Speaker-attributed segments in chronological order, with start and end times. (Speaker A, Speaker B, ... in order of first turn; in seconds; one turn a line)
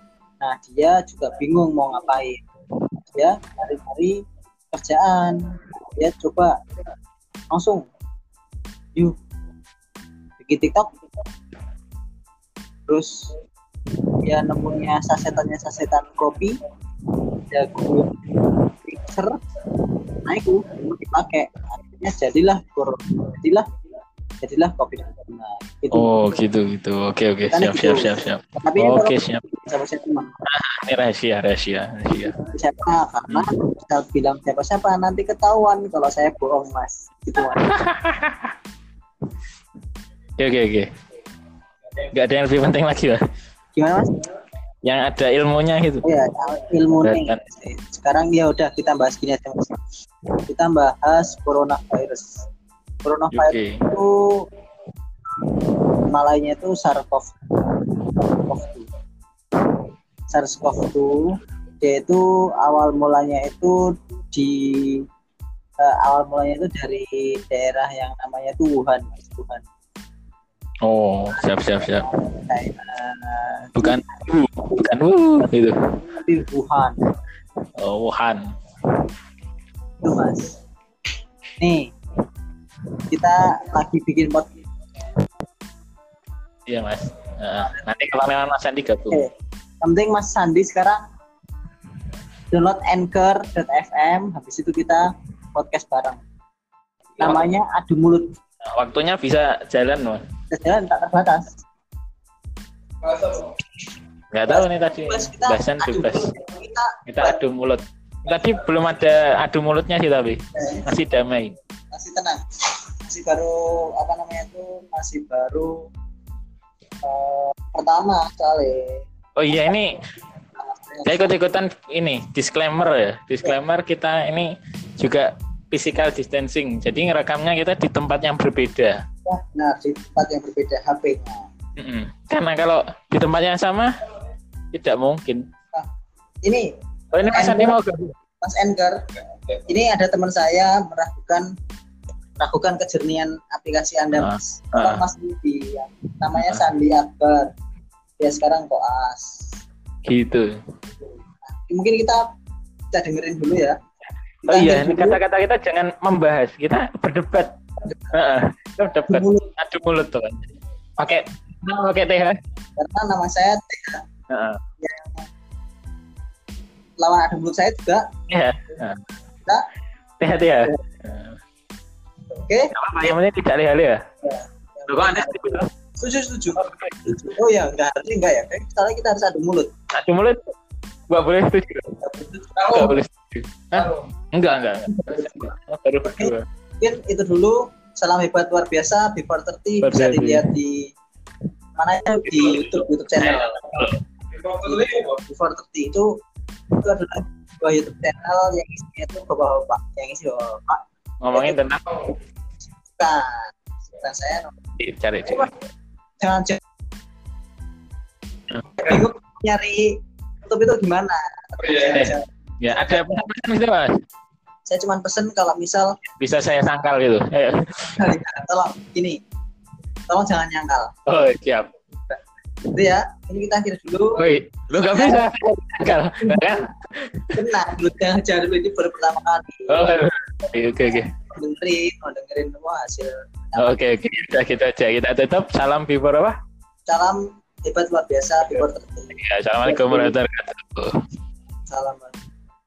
Speaker A: 0.4-2.4
Speaker A: 3.1-4.1
Speaker A: 4.7-6.5
Speaker A: 7.5-7.9
Speaker A: 10.4-10.9
Speaker A: 12.9-13.3
Speaker A: 14.2-16.6
Speaker A: 17.5-18.1
Speaker A: 18.8-19.4
Speaker A: 20.2-23.7
Speaker A: 24.4-26.3
Speaker B: 25.9-29.4
Speaker A: 27.5-30.3
Speaker B: 30.5-32.4
Speaker A: 32.4-37.8
Speaker B: 33.3-33.5
Speaker B: 37.6-38.5
Speaker B: 40.4-40.9
Speaker B: 42.1-43.2
Speaker A: 43.8-44.1
Speaker B: 44.8-46.0
Speaker A: 46.0-49.8
Speaker B: 47.0-47.4
Speaker A: 50.5-52.4
Speaker A: 53.0-54.5
Speaker B: 53.3-53.8
Speaker A: 56.1-57.3
Speaker A: 58.3-58.9
Speaker A: 60.3-65.1
Speaker A: 65.8-69.7
Speaker B: 70.8-72.0
Speaker A: 71.3-74.1
Speaker B: 73.8-75.8
Speaker A: 76.1-77.0
Speaker B: 77.8-78.4
Speaker A: 80.0-80.6
Speaker A: 81.6-81.9
Speaker A: 83.1-84.5
Speaker B: 86.7-89.2
Speaker A: 89.8-91.0
Speaker A: 92.5-96.2
Speaker A: 97.2-98.3
Speaker B: 98.8-100.2
Speaker A: 100.5-101.6
Speaker B: 104.3-106.3
Speaker A: 104.5-107.4
Speaker B: 107.1-111.5
Speaker A: 110.5-110.9
Speaker A: 111.9-112.4
Speaker A: 113.0-115.8
Speaker A: 117.0-119.0
Speaker B: 119.4-120.0
Speaker A: 120.6-121.3
Speaker B: 121.0-129.0
Speaker A: 129.3-131.5
Speaker B: 131.8-133.9
Speaker B: 134.7-135.4
Speaker B: 137.1-138.1
Speaker A: 137.2-137.8
Speaker A: 138.4-139.0
Speaker A: 139.5-141.4
Speaker A: 142.4-147.5
Speaker B: 144.2-145.0
Speaker A: 148.2-149.5
Speaker B: 150.1-150.6
Speaker A: 151.5-152.2
Speaker A: 152.9-153.8
Speaker B: 154.4-157.5
Speaker A: 154.5-155.2
Speaker A: 157.8-158.2
Speaker B: 158.1-162.4
Speaker A: 159.1-159.5
Speaker A: 162.8-164.0
Speaker B: 164.3-164.6
Speaker A: 164.8-165.2
Speaker A: 167.0-168.1
Speaker B: 168.3-169.0
Speaker B: 170.2-171.4
Speaker A: 172.4-172.7
Speaker B: 172.8-174.0
Speaker A: 174.2-179.7
Speaker B: 174.9-175.7
Speaker B: 176.6-177.2
Speaker B: 179.9-180.5
Speaker B: 181.1-181.9
Speaker A: 182.0-183.0
Speaker B: 182.7-186.4
Speaker A: 184.9-185.5
Speaker A: 186.0-190.9
Speaker B: 189.8-190.5
Speaker A: 191.8-196.1
Speaker B: 192.4-194.0
Speaker A: 196.8-200.8
Speaker B: 201.2-202.1
Speaker A: 201.3-201.6
Speaker A: 202.9-204.6
Speaker B: 204.8-205.5
Speaker A: 205.3-205.5
Speaker A: 206.2-206.6
Speaker B: 208.5-209.0
Speaker A: 208.8-213.3
Speaker B: 211.6-213.9
Speaker A: 214.7-216.0
Speaker B: 216.2-217.7
Speaker A: 217.9-219.2
Speaker A: 220.1-221.0
Speaker B: 221.1-221.7
Speaker A: 222.7-224.2
Speaker B: 224.2-227.4
Speaker A: 224.8-225.3
Speaker A: 227.4-229.9
Speaker B: 229.7-231.1
Speaker A: 231.3-233.8
Speaker B: 233.6-236.3
Speaker A: 236.9-240.2
Speaker B: 238.5-240.9
Speaker A: 241.7-242.2